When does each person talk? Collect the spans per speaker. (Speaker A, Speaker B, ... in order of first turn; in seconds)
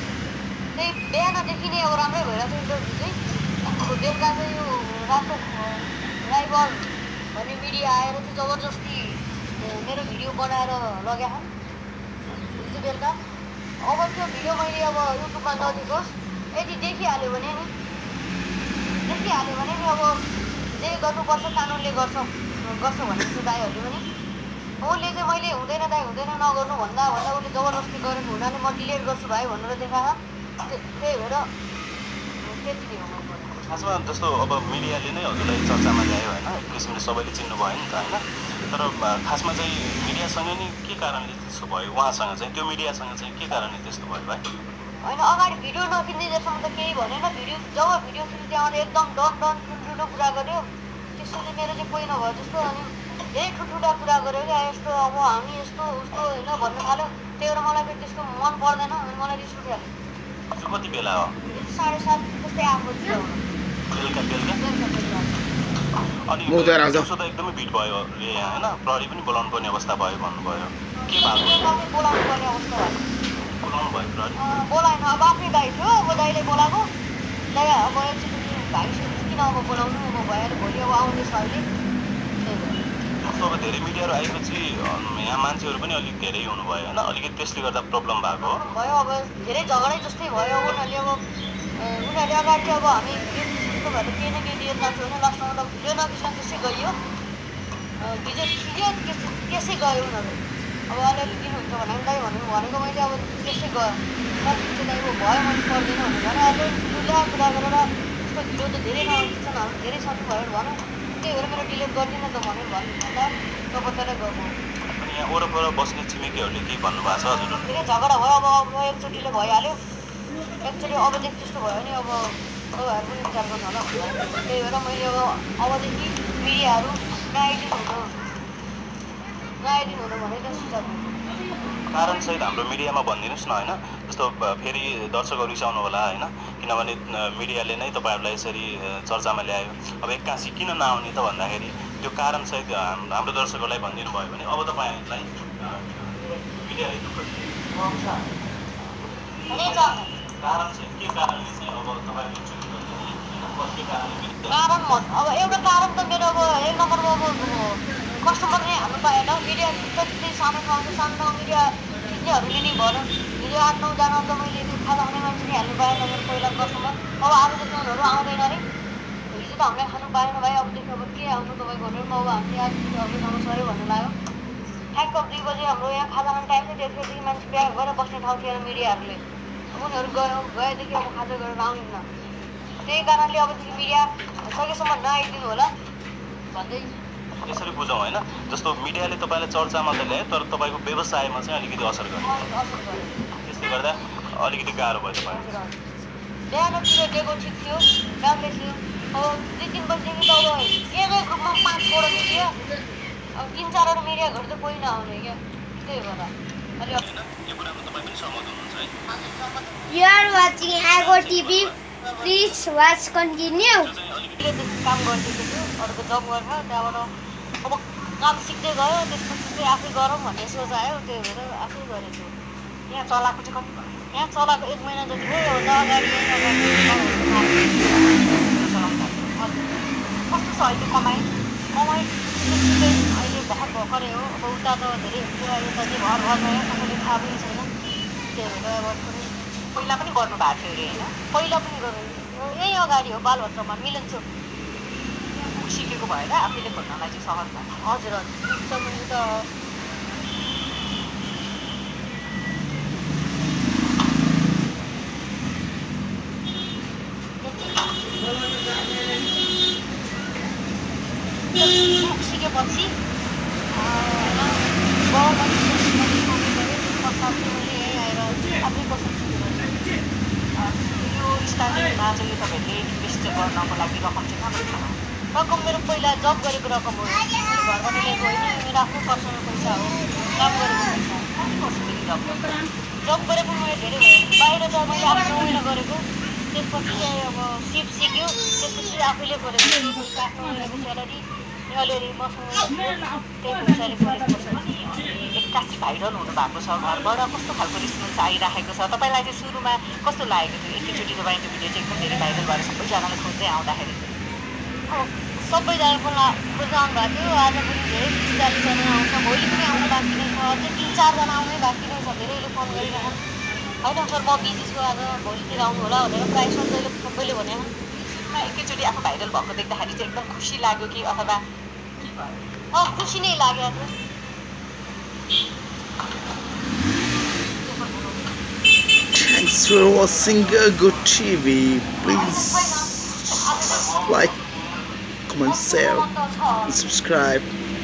Speaker A: 0.7-11.5, 12.5-13.2, 13.8-17.7, 19.0-20.2, 20.7-24.1, 24.8-31.5, 32.4-33.5, 45.0-50.6, 51.2-59.9, 61.5-63.4, 64.6-65.3, 71.0-73.0, 74.3-76.9, 77.5-81.6, 82.4-82.8, 88.4-91.2, 91.8-96.9, 98.0-100.4, 100.9-114.5, 117.6-119.8, 120.6-128.1, 129.6-131.1, 149.5-150.1, 154.5-168.6, 169.3-174.1, 174.9-179.2, 179.7-182.0, 182.8-185.7, 186.5-186.9, 192.2-193.1, 195.2-195.7, 196.5-202.5, 203.3-207.1, 209.1-209.8, 214.4-217.1, 217.6-222.3, 224.1-227.8, 231.7-237.7, 238.3-239.3, 241.3-244.2, 247.8-249.4, 261.6-262.9, 263.7-269.7, 275.3-281.2, 281.9-282.3, 283.0-292.8, 293.4-294.8, 304.9-313.1, 313.8-317.7, 322.7-323.9, 327.7-328.0, 333.4-333.9, 335.9-336.6
Speaker B: 33.7-44.4, 60.5-61.3, 63.9-64.6, 66.3-71.6, 73.5-74.4, 83.2-88.6, 114.9-117.7, 131.9-148.1, 149.5-154.6, 187.4-192.4, 193.4-195.5, 206.9-208.9, 210.8-211.7, 213.7-214.4
Speaker C: 66.5-67.0, 329.1-332.9, 333.9-334.4, 335.3-336.1, 336.6-337.5
Speaker D: 209.9-213.9
Speaker E: 222.9-223.9, 228.4-229.4, 230.3-231.3, 239.7-241.2, 245.4-247.7, 270.7-274.9, 281.3-282.5, 295.1-304.1, 318.1-321.4